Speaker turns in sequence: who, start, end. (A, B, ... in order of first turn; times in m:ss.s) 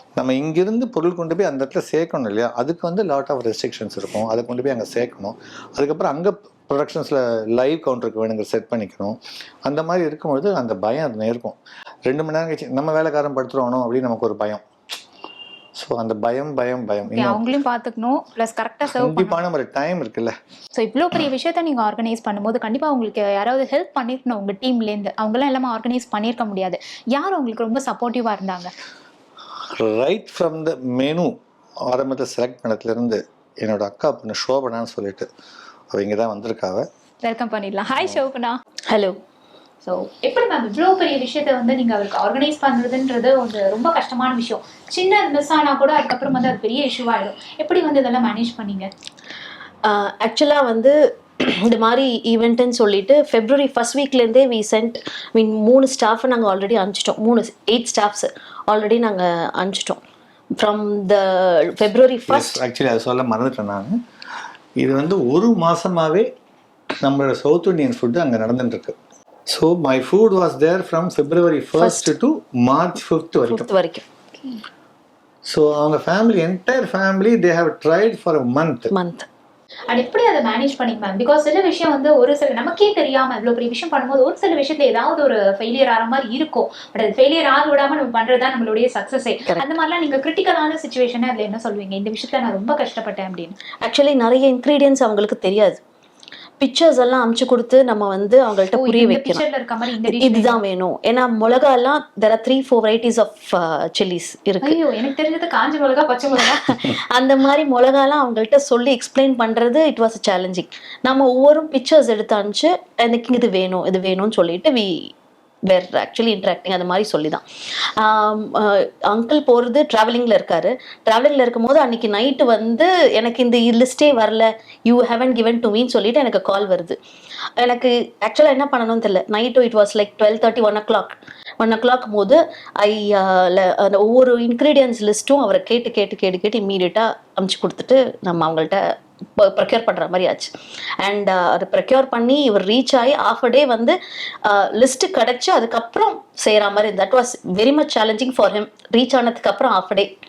0:00.2-0:14.6 A
0:15.8-0:17.6 A
0:17.1-0:19.4 B
0:18.9-0:20.4 A
0:20.8-0:28.7 B
0:29.8-0:35.3 A
0:35.9-0:36.9 A
0:37.2-0:38.6 B
0:38.9-0:39.2 C
0:39.9-0:48.9 B
0:49.8-1:00.0 C
1:00.6-1:02.6 C
1:02.3-1:04.0 A
1:04.8-1:06.3 A
1:07.0-1:09.0 A
1:09.5-1:13.7 A
1:11.8-1:12.2 C
1:13.5-1:14.1 C
1:15.5-1:18.9 A
1:18.9-1:19.3 C
1:19.9-1:33.6 B
1:33.8-1:35.8 C
1:36.6-1:39.4 C
1:38.7-1:40.6 B
1:40.0-1:44.8 C
1:44.6-1:47.0 B
1:46.4-1:55.1 C
1:55.7-2:07.0 C
2:07.6-2:30.1 C